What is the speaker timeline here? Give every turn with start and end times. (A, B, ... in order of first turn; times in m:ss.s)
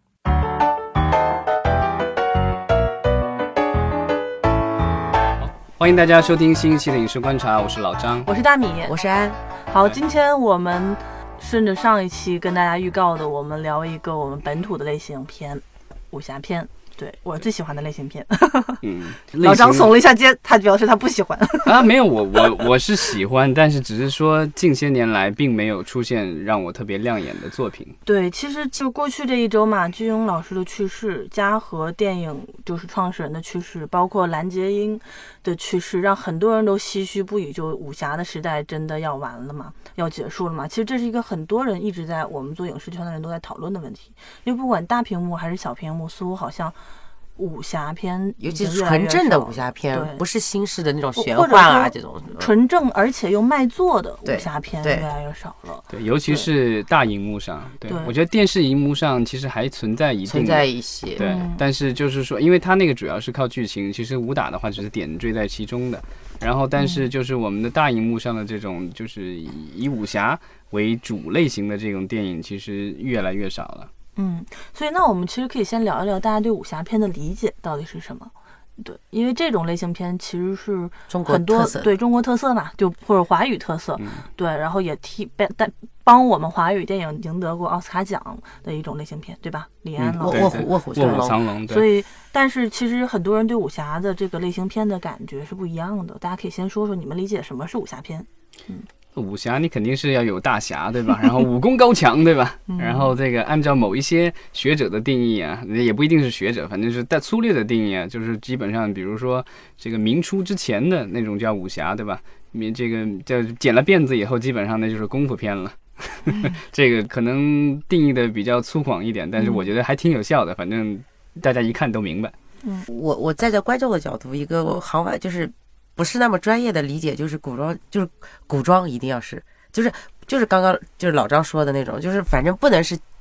0:05.4-0:08.3 A
0:08.3-0:09.0 B
0:08.9-0:09.4 C
0:09.7-0:18.8 B
0:18.8-0:19.9 A
0:19.4-0:22.6 B
0:21.7-0:27.9 A
0:28.1-0:46.8 B
0:47.4-0:50.2 B
0:48.4-0:52.5 C
0:51.2-0:55.9 B
0:54.2-0:55.1 C
0:55.9-1:00.6 A
0:57.9-0:58.1 B
1:00.3-1:01.2 C
1:01.2-1:13.9 A
1:01.2-1:01.6 B
1:06.8-1:07.1 B
1:14.2-1:38.9 B
1:21.1-1:21.9 C
1:24.0-1:24.2 A
1:30.0-1:31.9 A
1:30.2-1:31.4 C
1:39.2-2:02.3 A
1:42.7-1:43.2 B
1:59.4-1:59.7 B
2:02.9-2:13.0 C